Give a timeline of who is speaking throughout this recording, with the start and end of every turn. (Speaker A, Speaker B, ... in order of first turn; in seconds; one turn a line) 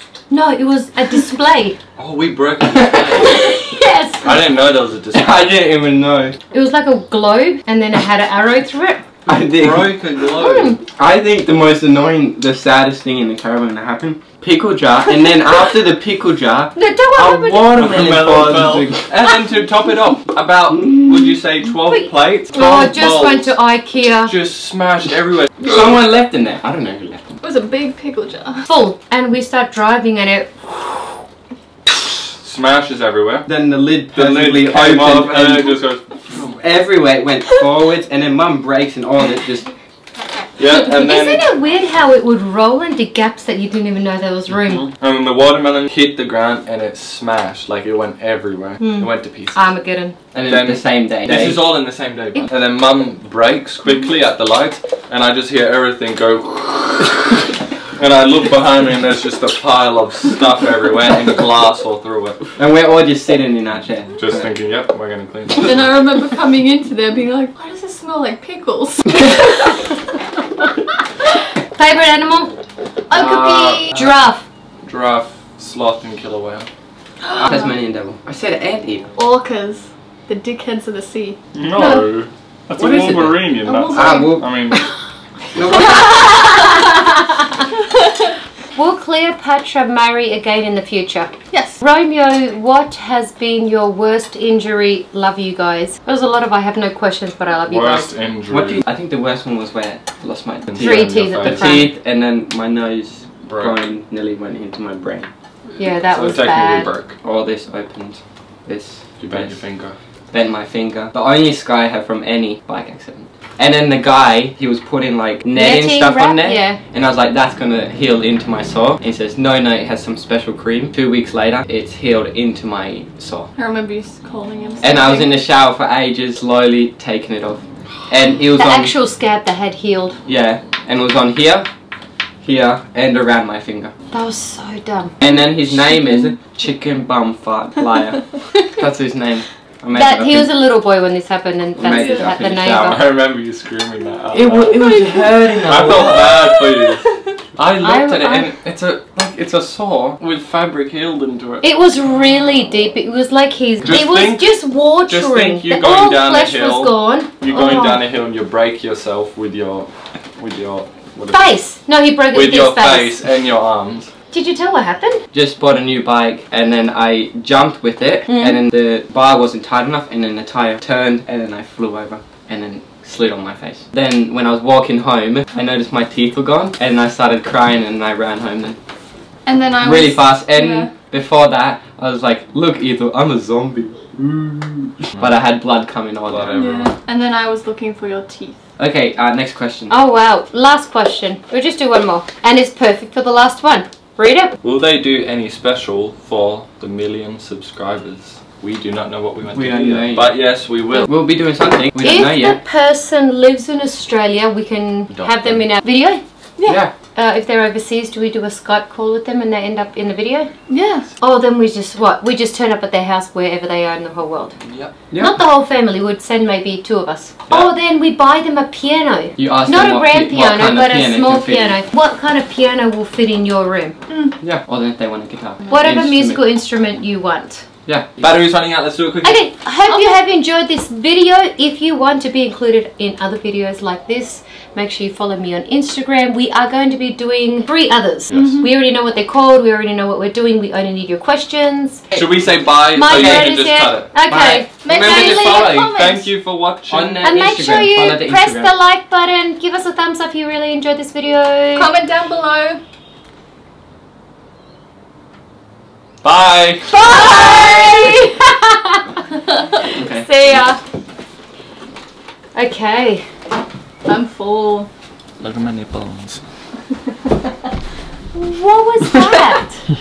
Speaker A: 0.3-1.8
Speaker B: 2.0-3.6
Speaker C: 2.7-3.0
Speaker A: 3.2-4.3
Speaker B: 4.2-5.6
Speaker C: 5.1-6.4
Speaker A: 6.5-9.0
Speaker C: 9.2-9.9
Speaker B: 9.6-10.8
Speaker A: 10.4-10.8
Speaker C: 11.0-19.1
Speaker A: 16.7-17.7
Speaker B: 17.7-23.5
Speaker A: 21.9-24.3
Speaker B: 24.2-25.9
Speaker C: 25.6-27.4
Speaker D: 27.4-28.7
Speaker A: 28.7-31.0
Speaker B: 32.4-33.5
Speaker C: 33.5-35.8
Speaker B: 34.1-36.6
Speaker C: 36.6-39.7
Speaker B: 40.6-41.5
Speaker A: 40.9-44.9
Speaker B: 44.6-49.6
Speaker A: 48.8-50.2
Speaker C: 50.3-51.6
Speaker B: 50.4-57.4
Speaker B: 57.9-62.4
Speaker C: 62.6-64.5
Speaker B: 64.2-66.0
Speaker D: 65.6-69.9
Speaker A: 71.7-72.5
Speaker A: 73.1-74.5
Speaker B: 73.1-74.1
Speaker B: 74.8-76.7
Speaker D: 77.2-77.7
Speaker C: 77.4-79.1
Speaker D: 79.2-82.1
Speaker B: 81.5-84.9
Speaker C: 82.8-84.7
Speaker D: 83.6-84.8
Speaker C: 85.5-86.3
Speaker D: 85.6-87.0
Speaker A: 85.8-87.4
Speaker D: 87.9-88.3
Speaker A: 88.7-98.1
Speaker D: 91.5-91.8
Speaker B: 97.7-98.8
Speaker C: 98.5-105.3
Speaker B: 100.7-101.9
Speaker A: 100.8-101.9
Speaker B: 103.5-103.8
Speaker B: 105.8-107.1
Speaker A: 105.8-106.9
Speaker C: 107.2-109.6
Speaker B: 109.2-110.0
Speaker C: 110.3-123.5
Speaker A: 115.5-116.8
Speaker D: 123.5-125.3
Speaker C: 124.8-128.9
Speaker A: 128.6-130.2
Speaker C: 130.3-131.7
Speaker C: 132.4-133.9
Speaker A: 134.1-136.3
Speaker C: 135.2-140.5
Speaker A: 139.9-143.0
Speaker C: 141.8-143.0
Speaker D: 141.8-142.4
Speaker B: 142.6-144.9
Speaker C: 144.3-146.3
Speaker A: 144.8-145.3
Speaker B: 145.6-151.7
Speaker D: 146.2-147.2
Speaker A: 147.8-148.5
Speaker A: 151.6-157.5
Speaker B: 153.8-161.5
Speaker D: 157.5-158.0
Speaker A: 161.3-163.2
Speaker B: 162.3-164.1
Speaker A: 164.3-165.2
Speaker C: 165.3-178.8
Speaker A: 168.3-168.6
Speaker D: 179.4-180.9
Speaker C: 179.8-186.6
Speaker B: 186.3-186.9
Speaker D: 186.6-188.6
Speaker C: 188.8-189.9
Speaker A: 189.9-194.5
Speaker B: 194.6-201.1
Speaker C: 199.5-200.3
Speaker C: 201.0-202.6
Speaker A: 202.0-206.2
Speaker B: 205.1-205.7
Speaker D: 206.6-206.8
Speaker C: 206.6-206.9
Speaker A: 207.1-210.5
Speaker D: 210.7-211.1
Speaker A: 211.2-214.6
Speaker B: 214.6-214.9
Speaker C: 215.1-215.4
Speaker A: 215.2-223.9
Speaker C: 219.4-221.8
Speaker D: 224.1-224.3
Speaker C: 224.4-226.4
Speaker A: 225.7-227.7
Speaker C: 227.8-228.2
Speaker B: 228.2-229.5
Speaker A: 229.2-242.1
Speaker D: 229.9-230.2
Speaker B: 238.3-238.6
Speaker D: 238.3-238.7
Speaker B: 242.1-244.1
Speaker A: 242.9-245.7
Speaker C: 243.1-243.5
Speaker C: 244.3-245.5
Speaker D: 244.8-246.3
Speaker B: 244.9-247.2
Speaker C: 246.9-248.7
Speaker A: 247.2-251.9
Speaker D: 251.7-252.8
Speaker B: 256.2-257.1
Speaker A: 256.9-259.0
Speaker C: 259.9-260.3
Speaker A: 260.0-260.8
Speaker A: 262.5-263.3
Speaker D: 264.0-264.9
Speaker B: 265.4-266.4
Speaker A: 268.3-269.8